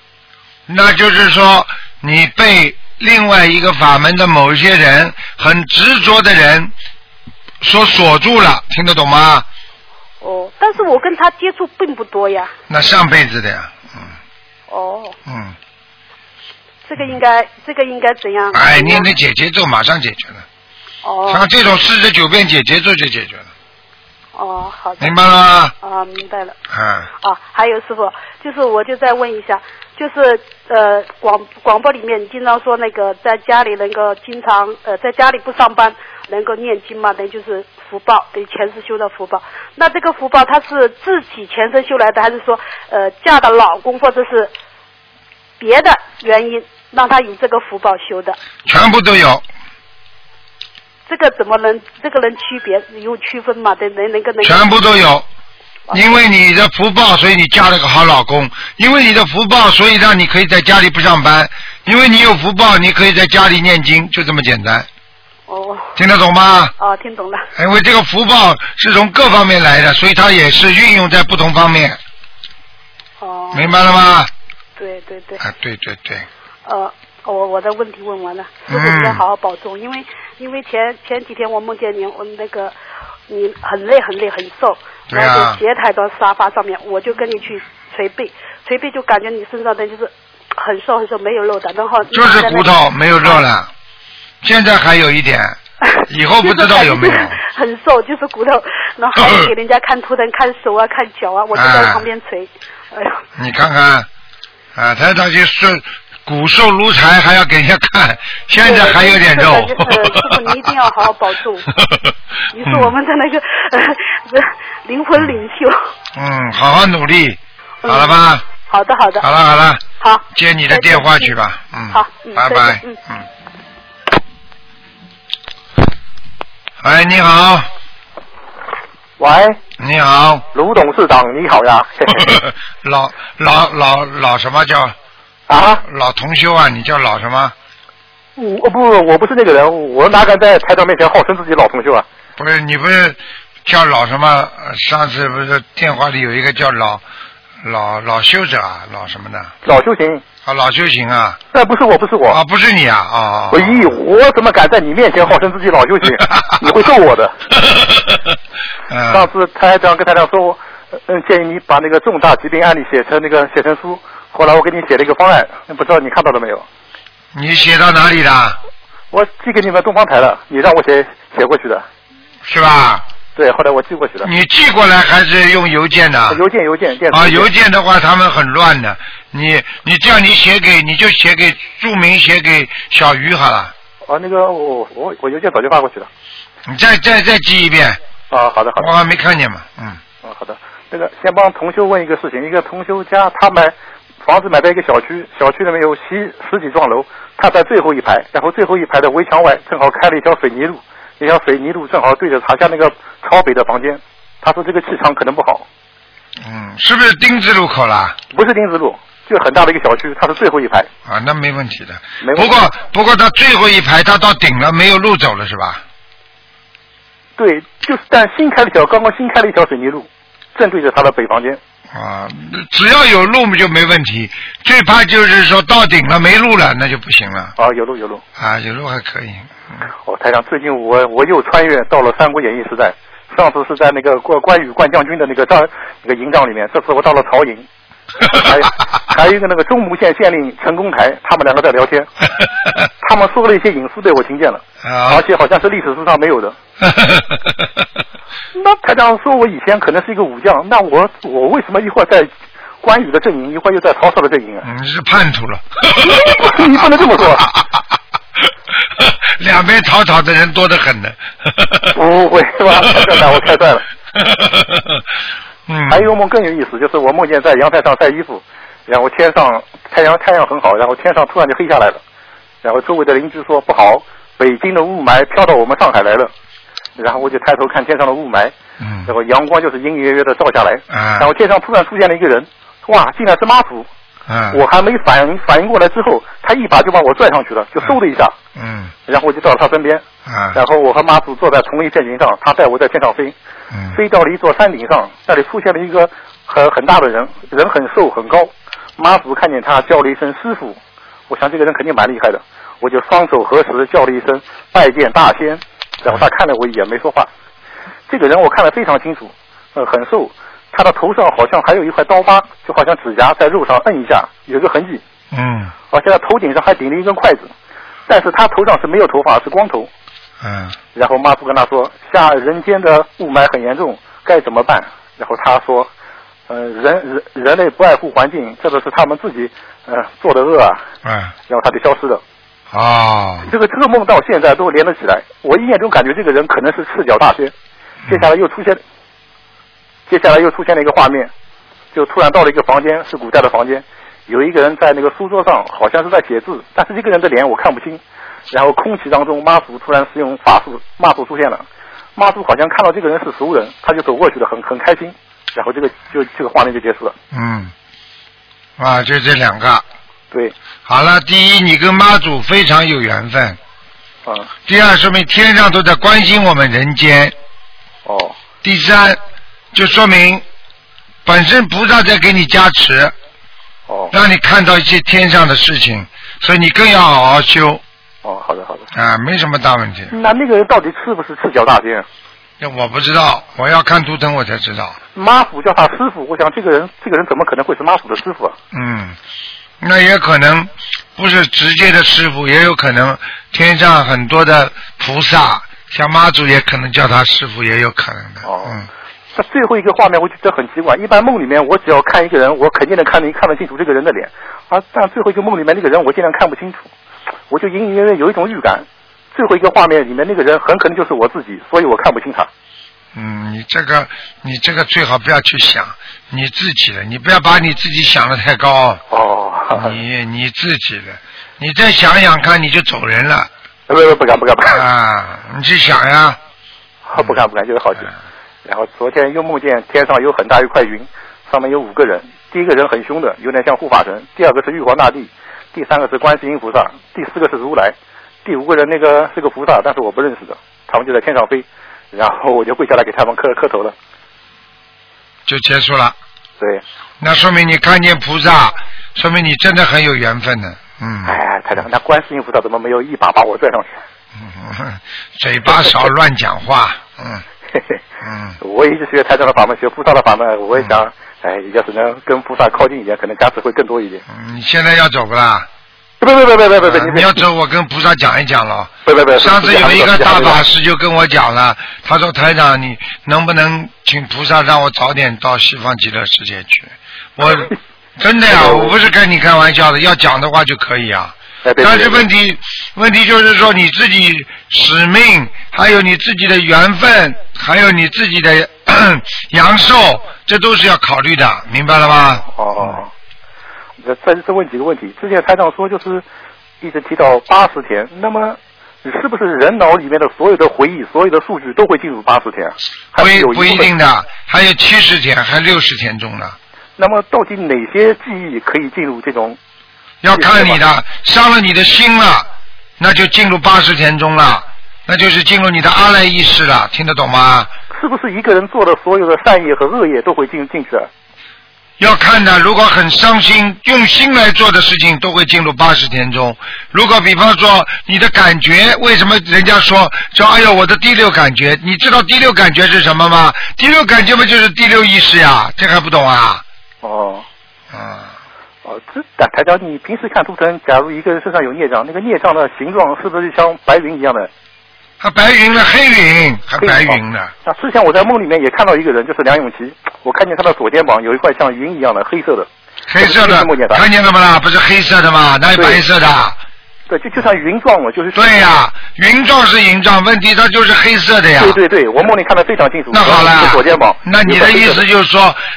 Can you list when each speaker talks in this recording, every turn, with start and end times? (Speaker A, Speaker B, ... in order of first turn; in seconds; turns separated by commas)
Speaker A: 0.7-6.7, Speaker A: 7.6-9.5, Speaker B: 10.2-12.5, Speaker A: 12.7-14.1, Speaker B: 14.7-15.2, Speaker A: 15.3-15.6, Speaker B: 16.9-19.1, Speaker A: 18.5-20.4, Speaker B: 21.0-21.5, Speaker A: 21.3-23.5, Speaker B: 24.4-25.1, Speaker A: 25.0-25.7, Speaker B: 25.8-26.6, Speaker A: 26.7-27.1, Speaker B: 27.2-44.5, Speaker B: 45.6-48.4, Speaker A: 48.7-49.5, Speaker B: 51.1-54.7, Speaker A: 54.4-55.3, Speaker B: 55.9-56.2, Speaker A: 55.9-64.9, Speaker B: 65.5-65.9, Speaker A: 66.0-66.7, Speaker B: 66.8-67.5, Speaker A: 67.6-72.0, Speaker B: 73.2-73.7, Speaker A: 73.5-74.3, Speaker B: 74.8-75.4, Speaker A: 75.4-76.3, Speaker B: 76.7-82.7, Speaker A: 78.7-79.2, Speaker B: 83.3-93.4, Speaker A: 85.1-85.6, Speaker A: 92.1-93.7, Speaker A: 94.4-97.4, Speaker B: 95.8-103.2, Speaker A: 101.5-102.0, Speaker A: 103.4-104.1, Speaker A: 104.8-110.4, Speaker B: 108.6-111.7, Speaker B: 112.5-115.8, Speaker A: 112.6-112.9, Speaker A: 116.2-118.5, Speaker B: 117.8-119.3, Speaker A: 119.2-123.2, Speaker B: 120.0-121.3, Speaker B: 121.9-123.0, Speaker A: 126.8-127.7, Speaker C: 129.2-129.6, Speaker A: 129.8-130.5, Speaker C: 130.5-132.4, Speaker A: 132.2-135.0, Speaker C: 135.5-135.8, Speaker A: 135.8-137.5, Speaker C: 138.4-142.1, Speaker A: 142.4-147.0, Speaker A: 147.6-149.6, Speaker C: 149.6-150.2, Speaker A: 150.4-151.4, Speaker C: 151.5-152.4, Speaker A: 152.3-153.9, Speaker C: 153.5-157.3, Speaker A: 158.9-159.3, Speaker C: 159.1-166.7, Speaker A: 167.3-168.6, Speaker C: 169.1-171.9, Speaker A: 172.4-173.0, Speaker C: 173.3-174.3, Speaker A: 174.2-176.4, Speaker C: 176.3-177.5, Speaker A: 177.1-183.7, Speaker C: 184.1-186.1, Speaker A: 186.7-188.0, Speaker C: 188.3-188.9, Speaker A: 188.8-190.0, Speaker C: 190.2-205.7, Speaker A: 206.4-208.2, Speaker C: 208.3-210.9, Speaker A: 211.1-215.8, Speaker C: 212.2-212.7, Speaker C: 217.4-221.6, Speaker A: 221.9-227.5, Speaker C: 227.6-228.2, Speaker A: 228.4-229.8, Speaker C: 230.1-237.7, Speaker C: 238.3-242.1, Speaker C: 243.0-246.6, Speaker A: 244.8-245.2, Speaker A: 246.8-247.5, Speaker C: 248.6-254.7, Speaker A: 254.6-256.6, Speaker C: 256.0-257.5, Speaker A: 259.0-261.9, Speaker C: 261.9-263.8, Speaker A: 264.2-265.0, Speaker A: 265.7-266.1, Speaker C: 265.9-272.0, Speaker C: 272.6-276.3, Speaker C: 277.0-278.5, Speaker A: 278.8-279.1, Speaker C: 279.1-283.9, Speaker A: 280.9-281.3, Speaker A: 284.3-284.6, Speaker C: 284.5-288.4, Speaker A: 288.6-288.9, Speaker C: 289.1-293.4, Speaker A: 290.3-290.6, Speaker A: 293.7-294.0, Speaker C: 293.9-307.3, Speaker C: 308.1-315.0, Speaker A: 315.3-315.7, Speaker C: 315.9-317.5, Speaker C: 318.1-319.9, Speaker A: 320.4-320.8, Speaker C: 320.9-325.9, Speaker C: 326.5-330.8, Speaker A: 331.0-331.3, Speaker C: 331.5-332.2, Speaker A: 332.7-333.5, Speaker C: 333.4-337.5, Speaker C: 338.1-338.8, Speaker C: 340.1-341.3, Speaker C: 341.9-357.2, Speaker A: 357.3-357.7, Speaker A: 358.8-359.8, Speaker A: 360.9-363.6, Speaker C: 364.2-364.5, Speaker A: 364.7-367.4, Speaker C: 368.1-368.4, Speaker A: 368.6-369.2, Speaker A: 369.7-370.4, Speaker A: 371.2-373.1, Speaker C: 373.9-374.1, Speaker A: 374.1-377.8, Speaker C: 378.2-378.9, Speaker A: 378.9-380.1, Speaker C: 380.1-382.1, Speaker A: 382.6-385.0, Speaker C: 385.1-388.6, Speaker A: 388.7-389.2, Speaker A: 389.8-398.9, Speaker C: 398.4-398.8, Speaker C: 399.3-406.9, Speaker C: 407.5-412.5, Speaker A: 413.1-419.0, Speaker C: 419.1-420.0, Speaker A: 419.7-423.5, Speaker C: 423.9-424.8, Speaker A: 424.7-426.4, Speaker C: 427.1-428.1, Speaker C: 428.6-443.9, Speaker A: 445.5-446.1, Speaker A: 447.2-451.4, Speaker C: 451.2-453.9, Speaker A: 454.4-457.4, Speaker C: 455.7-456.1, Speaker C: 457.7-458.0, Speaker A: 458.2-458.6, Speaker C: 458.6-464.2, Speaker A: 464.3-465.7, Speaker C: 466.2-467.4, Speaker A: 466.8-493.0, Speaker C: 469.1-470.6, Speaker C: 477.5-477.7, Speaker C: 478.5-478.9, Speaker C: 481.6-482.3, Speaker C: 492.4-493.1, Speaker C: 494.0-496.2, Speaker C: 496.8-503.9, Speaker A: 503.2-506.6, Speaker C: 507.0-509.6, Speaker A: 510.2-512.5, Speaker C: 510.3-510.8, Speaker A: 513.0-517.7, Speaker C: 517.9-521.1, Speaker A: 522.0-536.6, Speaker C: 537.0-537.5, Speaker A: 537.9-538.3, Speaker C: 538.9-544.5, Speaker A: 545.2-547.5, Speaker C: 546.8-552.7, Speaker A: 553.1-556.6, Speaker C: 553.2-554.1, Speaker C: 555.7-556.0, Speaker C: 557.1-558.8, Speaker A: 558.4-561.8, Speaker C: 561.6-565.0, Speaker A: 563.1-565.6